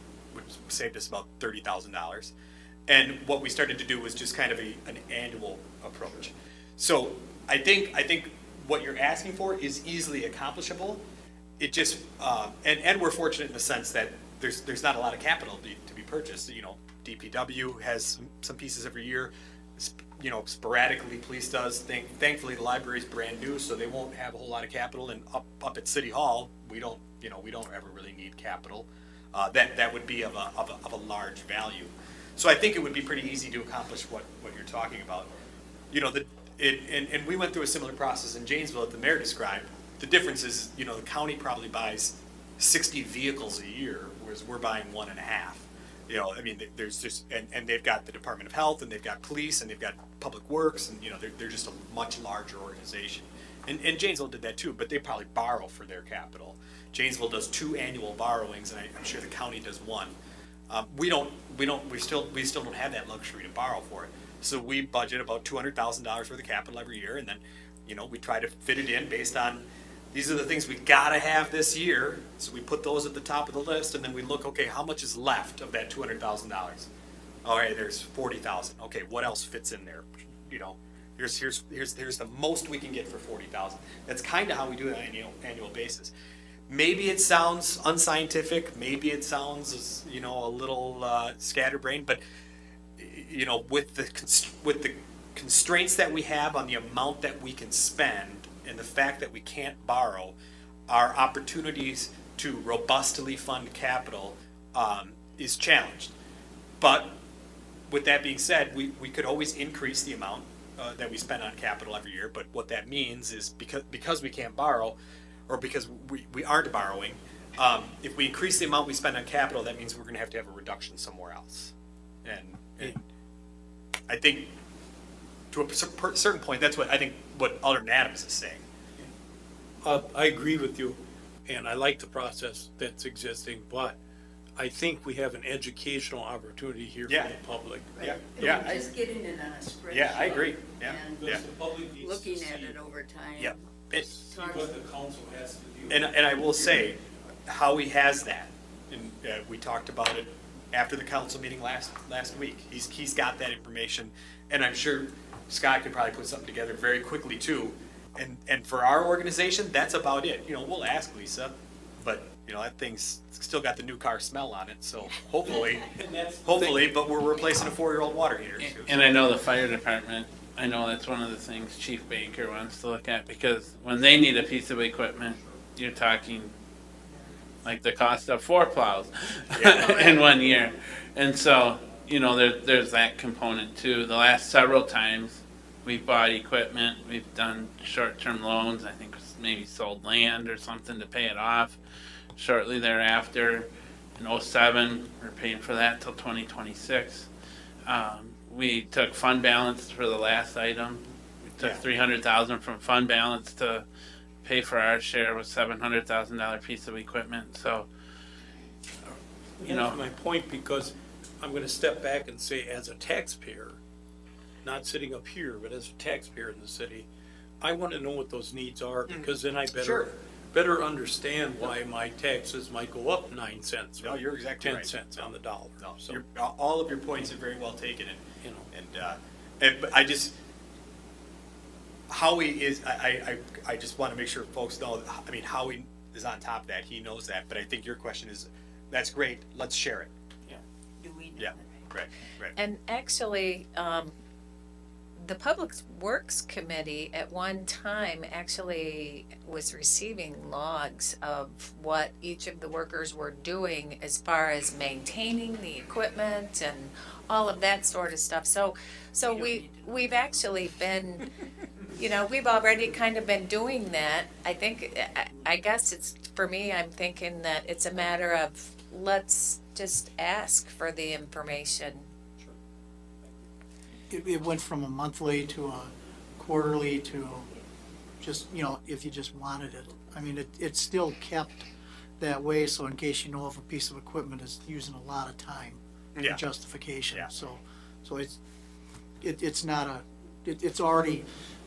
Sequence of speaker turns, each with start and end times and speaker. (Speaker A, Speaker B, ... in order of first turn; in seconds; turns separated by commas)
Speaker A: 0.3-2.3, Speaker A: 2.9-11.0, Speaker A: 11.6-35.3, Speaker A: 35.9-60.1, Speaker A: 60.7-76.9, Speaker A: 77.5-86.1, Speaker A: 86.7-92.2, Speaker A: 93.0-100.4, Speaker A: 100.9-106.1, Speaker A: 106.8-107.2, Speaker A: 107.9-121.7, Speaker A: 122.2-123.1, Speaker A: 124.1-124.5, Speaker A: 125.5-128.6, Speaker B: 129.8-134.0, Speaker B: 134.6-138.8, Speaker A: 137.1-137.3, Speaker A: 138.0-138.9, Speaker C: 138.0-141.3, Speaker A: 139.9-141.4, Speaker B: 141.1-142.8, Speaker C: 142.0-143.6, Speaker A: 143.4-144.2, Speaker B: 143.9-146.9, Speaker C: 144.2-144.8, Speaker A: 145.9-165.9, Speaker B: 165.5-167.0, Speaker A: 166.4-169.0, Speaker D: 168.6-176.6, Speaker D: 177.6-191.8, Speaker A: 179.5-180.2, Speaker D: 192.3-197.3, Speaker D: 197.8-203.9, Speaker D: 204.4-207.9, Speaker B: 209.6-213.8, Speaker D: 209.6-210.0, Speaker B: 214.6-217.1, Speaker B: 217.6-226.2, Speaker A: 219.1-220.1, Speaker A: 224.0-230.3, Speaker B: 228.4-228.7, Speaker A: 232.1-240.1, Speaker C: 240.5-241.8, Speaker A: 241.4-242.6, Speaker E: 242.6-244.2, Speaker E: 245.2-261.3, Speaker C: 259.2-260.4, Speaker E: 262.0-272.1, Speaker F: 274.1-277.5, Speaker F: 278.2-281.7, Speaker F: 282.2-288.4, Speaker A: 286.1-286.4, Speaker F: 289.2-291.3